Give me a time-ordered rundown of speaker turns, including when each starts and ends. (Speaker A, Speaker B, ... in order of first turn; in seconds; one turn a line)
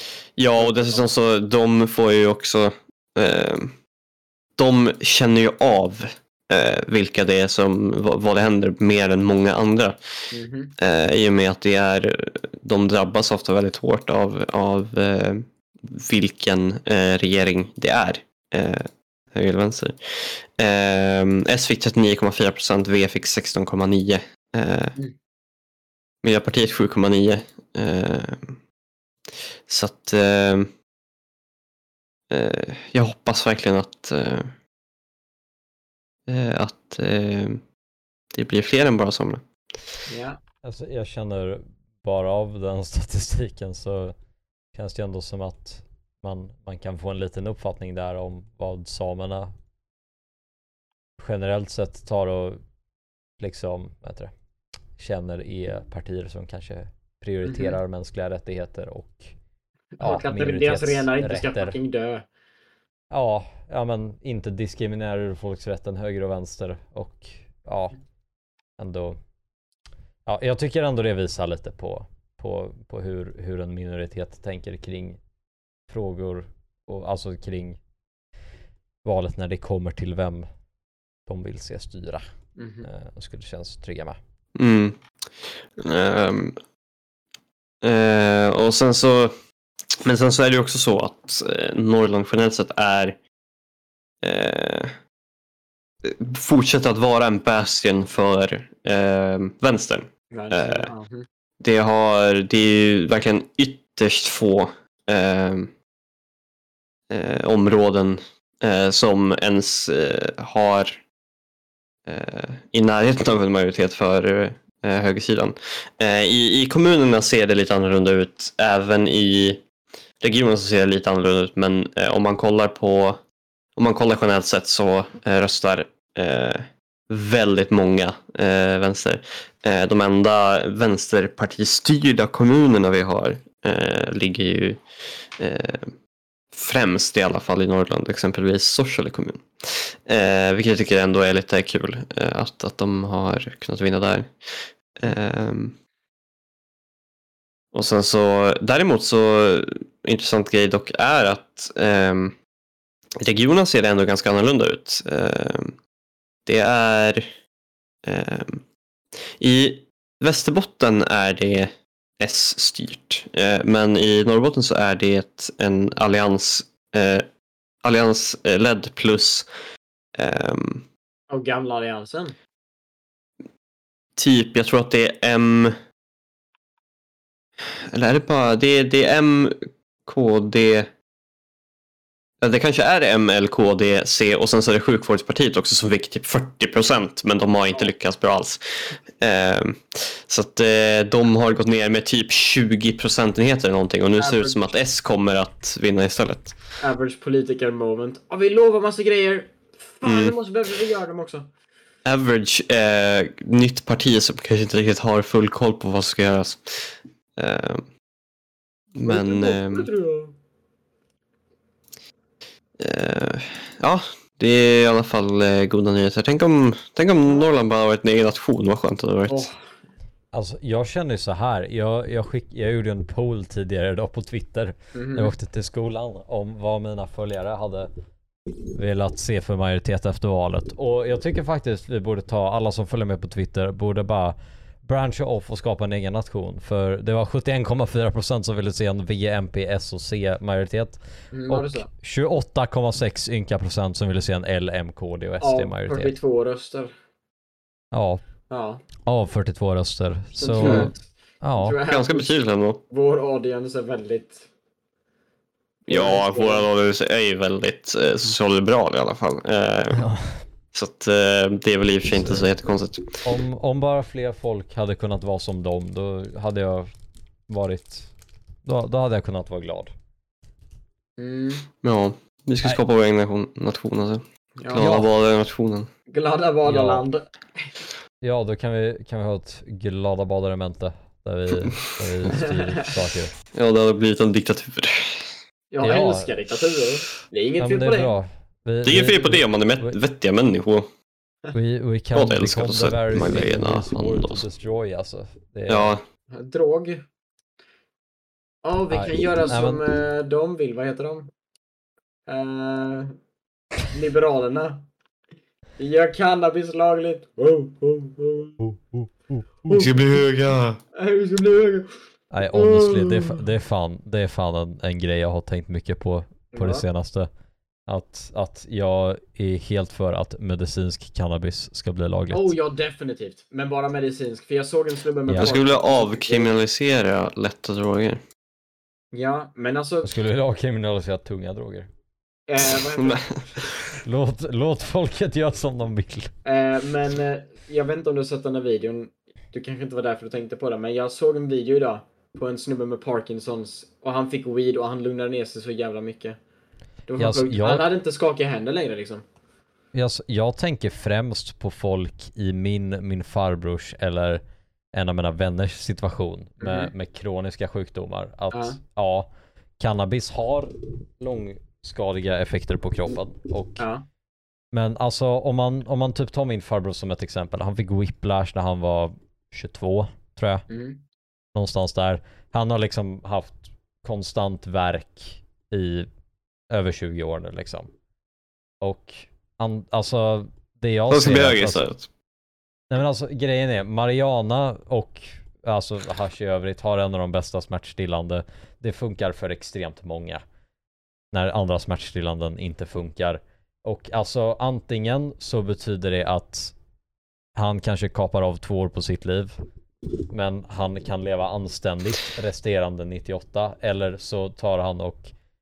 Speaker A: 0.4-3.7
Speaker B: 0.5-1.0
Speaker A: 4.6-10.0
Speaker B: 10.3-10.7
Speaker A: 10.8-24.9
Speaker A: 26.2-28.6
Speaker A: 29.7-30.7
Speaker A: 32.3-34.5
Speaker A: 36.3-37.6
Speaker A: 38.3-39.4
Speaker B: 40.1-40.4
Speaker C: 40.6-44.1
Speaker C: 44.7-49.5
Speaker C: 51.2-52.6
Speaker C: 53.4-54.3
Speaker C: 55.0-59.3
Speaker B: 57.5-57.8
Speaker B: 60.0-62.2
Speaker C: 60.0-61.8
Speaker C: 63.1-68.0
Speaker C: 68.8-69.2
Speaker C: 70.2-75.2
Speaker C: 75.9-77.8
Speaker C: 79.0-80.5
Speaker C: 81.2-82.2
Speaker B: 82.6-82.8
Speaker C: 82.8-84.2
Speaker A: 84.5-86.6
Speaker A: 87.8-89.3
Speaker A: 90.0-93.2
Speaker A: 94.2-95.0
Speaker A: 96.0-100.9
Speaker B: 100.3-101.2
Speaker A: 101.6-105.7
Speaker A: 107.1-111.0
Speaker A: 112.0-119.6
Speaker A: 120.2-123.2
Speaker A: 123.8-134.8
Speaker A: 135.4-135.9
Speaker A: 136.5-145.8
Speaker A: 147.7-152.3
Speaker A: 153.2-155.7
Speaker A: 156.4-157.2
Speaker A: 158.0-158.6
Speaker A: 159.4-167.2
Speaker A: 167.8-169.5
Speaker A: 170.2-170.8
Speaker B: 171.3-172.3
Speaker A: 174.2-175.7
Speaker A: 177.9-180.9
Speaker A: 182.4-188.6
Speaker A: 189.2-196.6
Speaker B: 194.2-194.7
Speaker B: 196.8-201.5
Speaker A: 200.0-200.3
Speaker A: 202.1-207.8
Speaker A: 208.9-209.9
Speaker B: 209.1-210.3
Speaker A: 212.8-219.5
Speaker B: 219.3-219.5
Speaker C: 220.3-227.9
Speaker B: 224.9-225.3
Speaker C: 228.7-246.1
Speaker B: 241.3-241.9
Speaker B: 245.4-246.9
Speaker C: 247.9-248.2
Speaker B: 248.5-248.8
Speaker C: 249.0-251.8
Speaker B: 250.3-252.3
Speaker A: 250.6-250.9
Speaker A: 251.8-252.8
Speaker B: 252.9-254.5
Speaker B: 255.9-256.7
Speaker A: 255.9-260.0
Speaker C: 259.9-260.4
Speaker A: 260.7-263.2
Speaker C: 262.2-262.4
Speaker C: 263.2-266.9
Speaker C: 267.5-268.1
Speaker C: 268.6-269.9
Speaker B: 271.2-271.6
Speaker A: 271.8-275.9
Speaker B: 274.6-274.9
Speaker C: 274.8-275.1
Speaker B: 276.1-277.7
Speaker C: 276.6-277.1
Speaker C: 278.2-283.3
Speaker B: 282.3-282.9
Speaker A: 283.5-285.3
Speaker B: 285.7-288.1
Speaker C: 285.8-286.3
Speaker C: 287.6-289.9
Speaker A: 288.8-290.9
Speaker C: 291.5-296.0
Speaker A: 292.1-294.4
Speaker A: 295.7-296.0
Speaker B: 296.3-297.0
Speaker B: 298.6-301.3
Speaker C: 298.9-299.8
Speaker B: 302.3-303.1
Speaker B: 303.9-304.9
Speaker B: 305.8-308.6
Speaker C: 308.6-309.8
Speaker B: 309.7-310.0
Speaker A: 309.7-310.8
Speaker B: 310.9-311.9
Speaker C: 312.3-317.3
Speaker B: 312.5-313.4
Speaker B: 316.5-316.8
Speaker C: 317.9-322.5
Speaker B: 322.3-326.5
Speaker A: 325.4-328.2
Speaker B: 329.1-330.1
Speaker C: 330.0-331.9
Speaker B: 332.5-333.2
Speaker A: 332.9-334.0
Speaker C: 334.0-336.3
Speaker B: 336.4-346.4
Speaker B: 347.1-349.2
Speaker C: 347.2-347.8
Speaker C: 349.9-354.4
Speaker C: 354.9-359.3
Speaker B: 356.6-356.9
Speaker B: 358.5-358.8
Speaker C: 359.8-363.8
Speaker B: 363.8-364.0
Speaker C: 364.7-370.6
Speaker B: 370.7-371.0
Speaker C: 371.5-376.1
Speaker C: 376.7-377.9
Speaker C: 378.8-381.8
Speaker A: 381.1-382.1
Speaker C: 382.9-390.4
Speaker C: 391.3-396.7
Speaker C: 397.6-399.6
Speaker C: 400.3-405.3